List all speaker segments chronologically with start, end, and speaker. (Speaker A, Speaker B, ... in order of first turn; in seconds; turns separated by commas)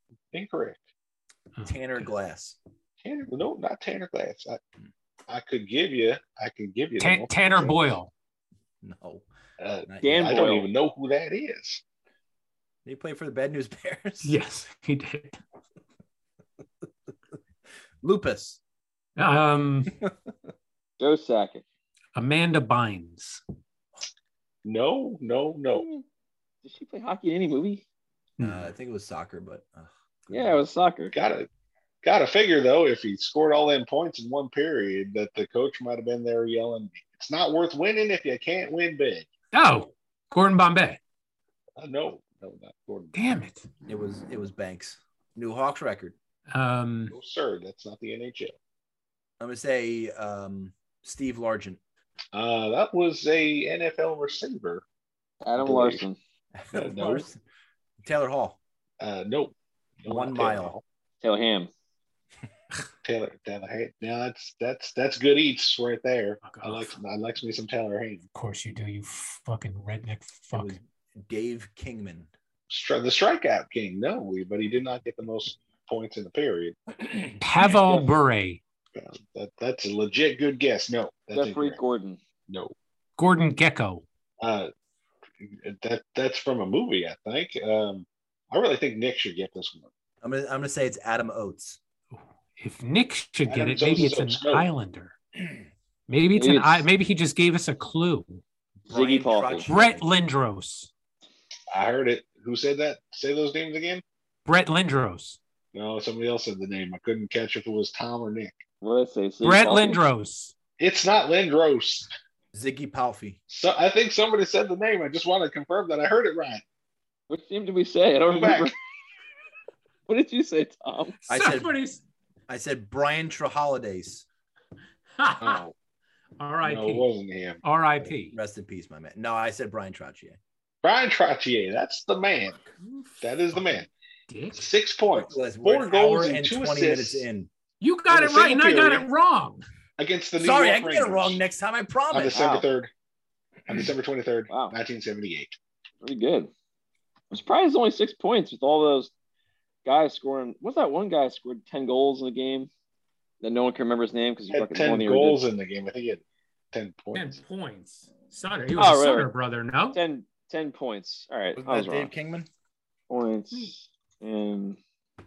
Speaker A: 0.3-0.8, Speaker B: 1.6-2.0, Speaker C: 1.6-2.6, Speaker A: 3.0-4.6, Speaker A: 5.3-7.8, Speaker B: 7.0-8.1, Speaker C: 8.8-9.3, Speaker A: 9.6-11.8, Speaker C: 9.9-10.2, Speaker D: 10.0-10.7, Speaker C: 12.8-14.4, Speaker B: 14.2-15.3, Speaker C: 18.0-18.6, Speaker B: 19.2-19.9, Speaker D: 21.0-21.6, Speaker B: 22.1-23.4, Speaker A: 24.6-25.9, Speaker D: 25.8-26.0, Speaker D: 26.6-27.9, Speaker B: 28.4-28.7, Speaker C: 28.4-30.6, Speaker D: 30.3-31.1, Speaker A: 31.1-31.5, Speaker A: 32.0-39.3, Speaker B: 39.5-41.0, Speaker A: 41.8-43.2, Speaker B: 43.1-43.7, Speaker C: 43.9-46.1, Speaker B: 46.5-47.1, Speaker A: 47.1-48.5, Speaker C: 49.4-51.8, Speaker A: 52.3-54.8, Speaker D: 55.4-56.2, Speaker A: 55.6-56.0, Speaker C: 56.5-57.4, Speaker A: 56.7-57.3, Speaker C: 58.0-58.6, Speaker A: 59.0-60.8, Speaker C: 60.1-60.8, Speaker D: 61.2-61.7, Speaker A: 63.0-68.2, Speaker B: 66.4-67.0, Speaker B: 68.3-70.8, Speaker C: 70.5-72.3, Speaker A: 72.7-76.8, Speaker C: 77.0-77.8, Speaker B: 77.4-78.6, Speaker A: 79.0-81.8, Speaker D: 81.3-82.2, Speaker A: 82.5-82.7, Speaker B: 83.2-84.0, Speaker A: 84.4-84.7, Speaker A: 85.4-89.9, Speaker C: 90.2-91.8, Speaker B: 92.1-95.2, Speaker A: 93.5-94.7, Speaker B: 96.1-98.4, Speaker D: 96.3-96.9, Speaker C: 98.9-100.1, Speaker D: 98.9-99.7, Speaker B: 99.7-100.9, Speaker A: 101.7-104.0, Speaker B: 104.5-105.4, Speaker A: 105.7-108.6, Speaker D: 108.8-110.0, Speaker B: 109.4-110.5, Speaker A: 110.8-112.1, Speaker C: 112.5-113.4, Speaker A: 113.5-116.6, Speaker D: 117.3-118.7, Speaker A: 118.3-118.7, Speaker D: 120.1-121.2, Speaker B: 121.2-122.0, Speaker C: 121.3-121.8, Speaker C: 122.5-124.2, Speaker B: 125.2-125.6, Speaker A: 125.4-125.7, Speaker B: 126.4-127.1, Speaker A: 126.6-127.6, Speaker B: 127.6-128.3, Speaker C: 128.0-130.4, Speaker A: 130.8-132.6, Speaker B: 132.8-134.7, Speaker A: 133.2-133.9, Speaker A: 134.5-137.3, Speaker C: 135.1-137.5, Speaker B: 137.8-139.6, Speaker A: 138.1-139.1, Speaker A: 140.0-141.4, Speaker C: 140.4-142.7, Speaker A: 142.1-142.9, Speaker A: 143.7-145.6, Speaker D: 144.5-144.8, Speaker D: 146.0-146.5, Speaker D: 147.3-149.1, Speaker D: 149.8-152.7, Speaker D: 153.4-155.4, Speaker A: 154.5-157.4, Speaker B: 157.1-160.0, Speaker D: 158.8-159.3, Speaker D: 159.9-162.1, Speaker C: 161.6-162.5, Speaker D: 163.1-164.8